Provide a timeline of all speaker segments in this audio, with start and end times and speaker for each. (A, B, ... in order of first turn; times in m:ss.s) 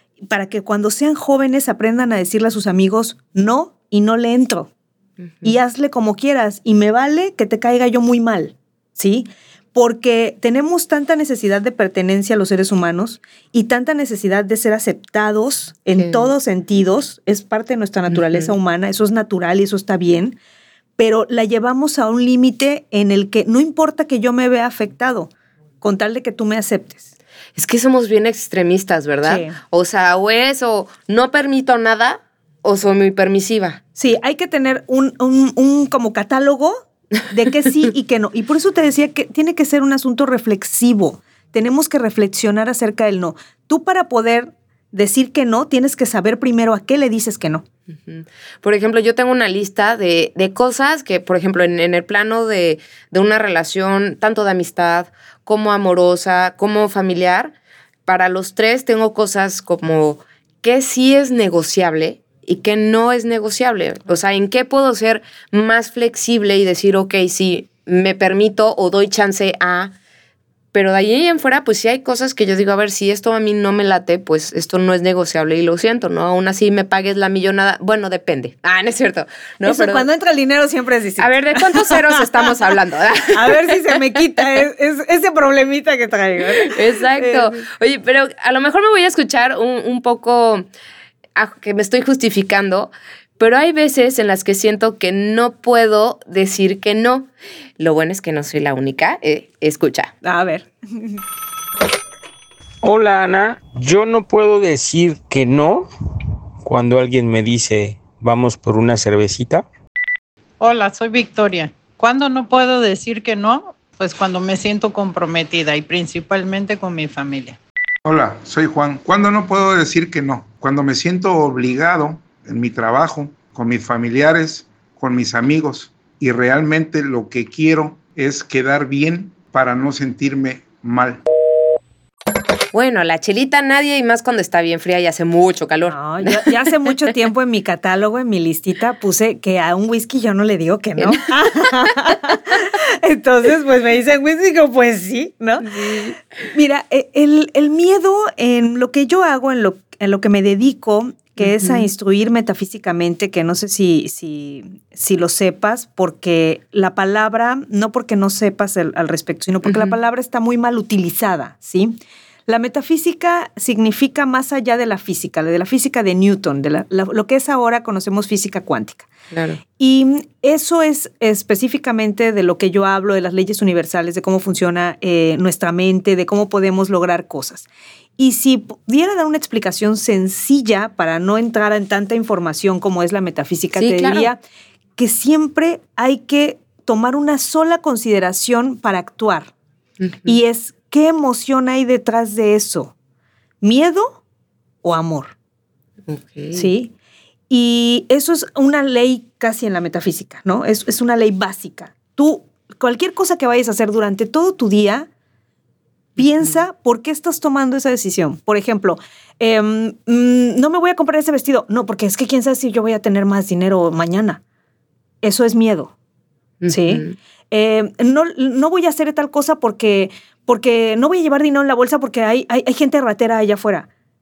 0:00.3-0:04.7 A
0:05.4-0:20.4 A
0:16.0-0:16.3 B
0:21.0-0:25.3 A
0:25.8-0:27.1 A
0:27.6-0:33.8 B
0:29.2-0:29.6 A
0:34.0-0:47.6 A
0:48.0-0:57.5 B
0:58.1-1:09.9 B
1:10.7-1:20.1 B
1:19.6-1:22.4 A
1:21.2-1:24.0 B
1:23.3-1:27.6 A
1:26.6-1:30.7 B
1:31.4-1:40.1 B
1:40.2-1:41.2 A
1:42.8-1:45.9 C
1:46.6-1:49.6 C
1:50.6-1:57.6 D
1:58.0-2:11.2 E
2:12.7-2:16.5 B
2:15.9-2:49.1 A
2:25.7-2:26.1 B
2:31.4-2:31.9 B
2:39.7-2:40.0 B
2:49.3-2:49.6 B
2:49.8-2:57.7 A
2:58.2-3:04.4 A
3:03.8-3:04.3 B
3:05.0-3:09.5 A
3:10.0-3:10.3 B
3:10.2-3:12.9 A
3:13.6-3:14.2 A
3:14.8-3:15.3 A
3:16.1-3:16.7 B
3:16.5-3:16.9 A
3:17.5-3:25.1 A
3:26.2-3:34.4 A
3:35.2-3:35.9 A
3:36.6-3:37.2 B
3:36.7-3:43.9 A